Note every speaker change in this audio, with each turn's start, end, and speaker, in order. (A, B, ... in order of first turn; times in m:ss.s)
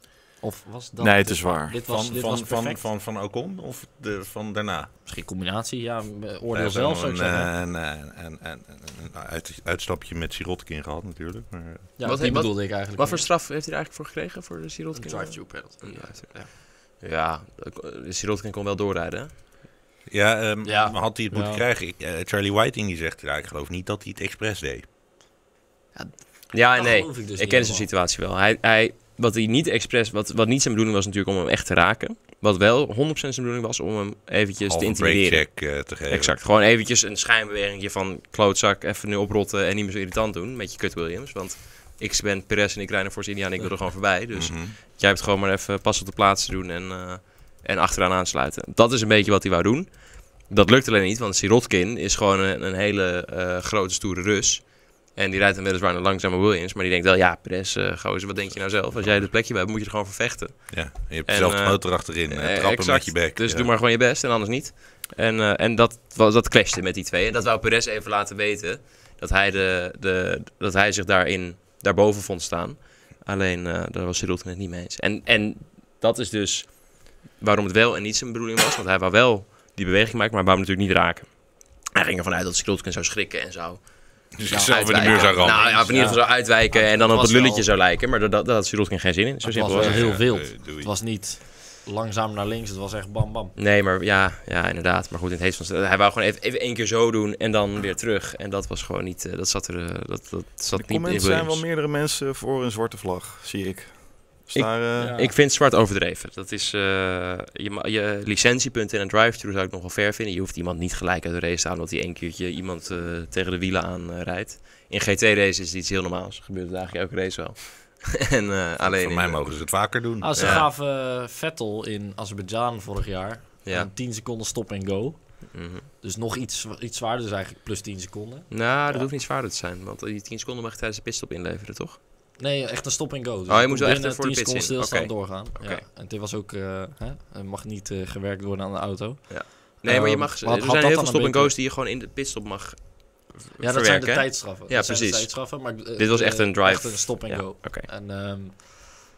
0:00.4-0:02.9 A
0:01.0-0:01.8 B
0:01.8-0:04.9 C
0:05.0-0:07.5 A
0:06.5-0:11.9 C
0:12.0-0:13.3 A
0:12.0-0:19.4 D
0:15.0-0:16.5 A
0:20.1-0:24.8 C
0:20.6-0:21.6 A
0:26.0-0:27.9 A
0:26.5-1:30.2 D
0:34.7-0:36.4 C
0:44.3-0:44.8 C
0:58.9-0:59.3 C
1:00.7-1:03.7 C
1:24.4-1:25.9 C
1:24.5-1:27.7 A
1:29.4-1:33.6 A
1:29.7-1:30.9 C
1:33.6-1:41.6 D
1:40.7-1:45.1 B
1:44.5-1:59.8 D
1:45.0-1:45.4 A
1:58.8-2:00.7 C
2:00.2-2:09.1 A
2:00.4-2:00.7 D
2:05.5-2:05.9 D
2:08.5-2:12.0 D
2:12.4-2:21.5 A
2:13.5-2:15.8 D
2:19.3-2:27.9 D
2:23.6-2:28.7 A